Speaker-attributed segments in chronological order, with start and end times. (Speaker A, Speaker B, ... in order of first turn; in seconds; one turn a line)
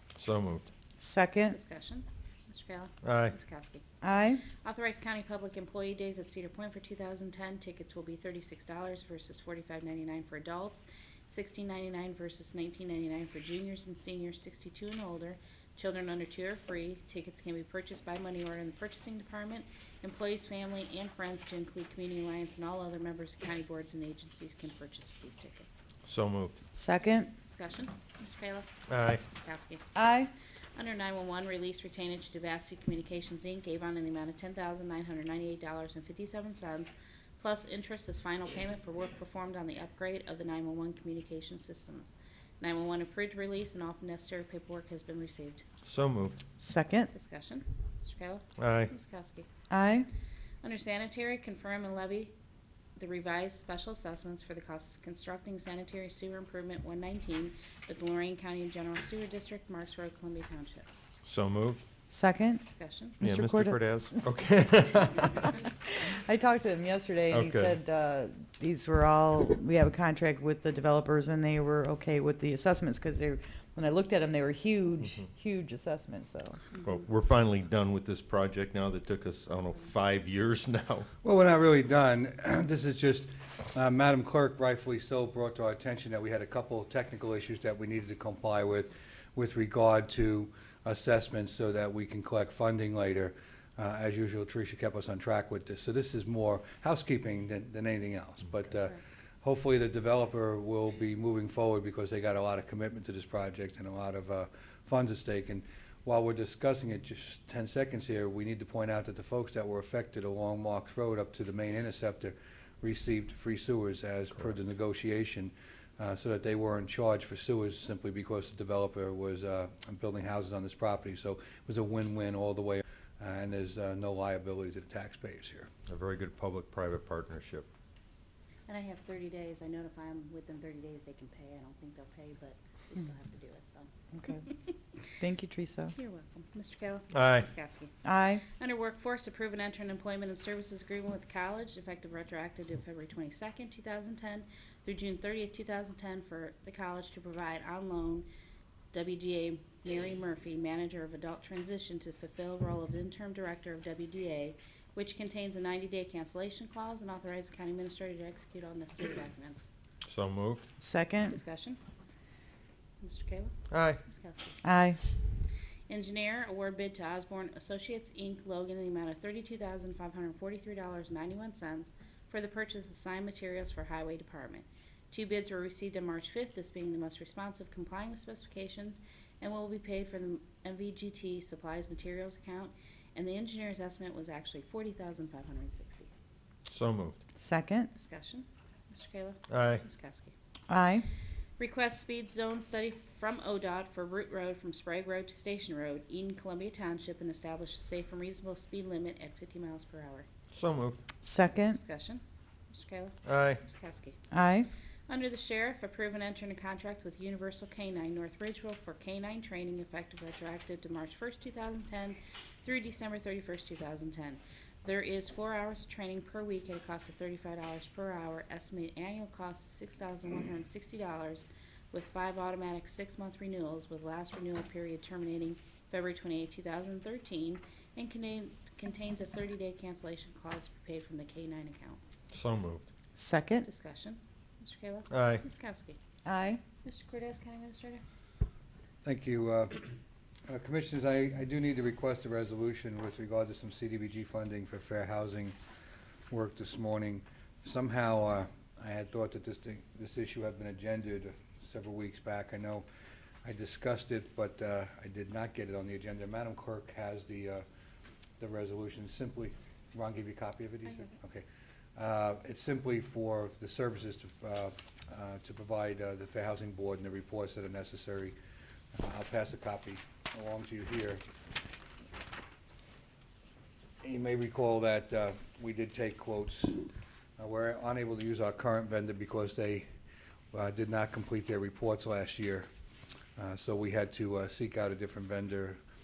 Speaker A: 0.2-0.7
Speaker B: 1.0-1.6
Speaker C: 1.5-3.8
Speaker A: 3.0-3.3
Speaker B: 4.0-4.4
Speaker C: 4.5-25.8
Speaker A: 26.0-26.5
Speaker B: 26.7-27.3
Speaker C: 27.4-29.8
Speaker A: 28.9-29.2
Speaker B: 29.9-30.3
Speaker C: 30.8-45.6
Speaker A: 45.8-46.4
Speaker B: 46.6-47.1
Speaker C: 47.1-49.5
Speaker A: 48.6-48.9
Speaker B: 49.7-50.1
Speaker C: 50.6-52.3
Speaker C: 53.0-60.9
Speaker A: 61.2-61.8
Speaker B: 62.1-62.6
Speaker C: 62.6-63.2
Speaker B: 63.2-63.8
Speaker A: 63.2-65.5
Speaker B: 65.8-76.6
Speaker A: 67.3-67.8
Speaker A: 76.8-81.1
Speaker D: 81.2-125.7
Speaker A: 125.9-127.7
Speaker C: 128.7-134.5
Speaker B: 135.1-135.9
Speaker C: 135.9-148.3
Speaker A: 137.1-137.5
Speaker B: 138.0-138.4
Speaker C: 148.9-159.7
Speaker A: 160.1-160.6
Speaker B: 160.8-161.3
Speaker C: 161.2-161.8
Speaker C: 163.0-164.6
Speaker A: 163.7-164.0
Speaker B: 164.6-165.0
Speaker C: 165.9-186.1
Speaker A: 186.7-187.2
Speaker B: 187.4-187.9
Speaker C: 187.9-190.3
Speaker A: 189.5-189.8
Speaker B: 190.7-191.1
Speaker C: 191.6-200.3
Speaker A: 200.5-201.0
Speaker B: 201.2-201.8
Speaker C: 201.7-204.2
Speaker A: 203.2-203.6
Speaker B: 204.3-204.7
Speaker C: 205.1-232.0
Speaker A: 232.3-232.9
Speaker B: 233.2-233.7
Speaker C: 233.6-236.0
Speaker A: 235.1-235.4
Speaker B: 236.2-236.6
Speaker C: 236.8-238.0
Speaker D: 239.0-239.9
Speaker D: 240.5-245.5
Speaker D: 246.3-252.8
Speaker D: 253.4-257.6
Speaker D: 258.4-261.4
Speaker C: 260.9-261.1
Speaker D: 261.9-268.3
Speaker D: 268.9-271.2
Speaker D: 274.0-276.9
Speaker D: 277.4-279.8
Speaker D: 280.5-282.7
Speaker D: 283.4-285.8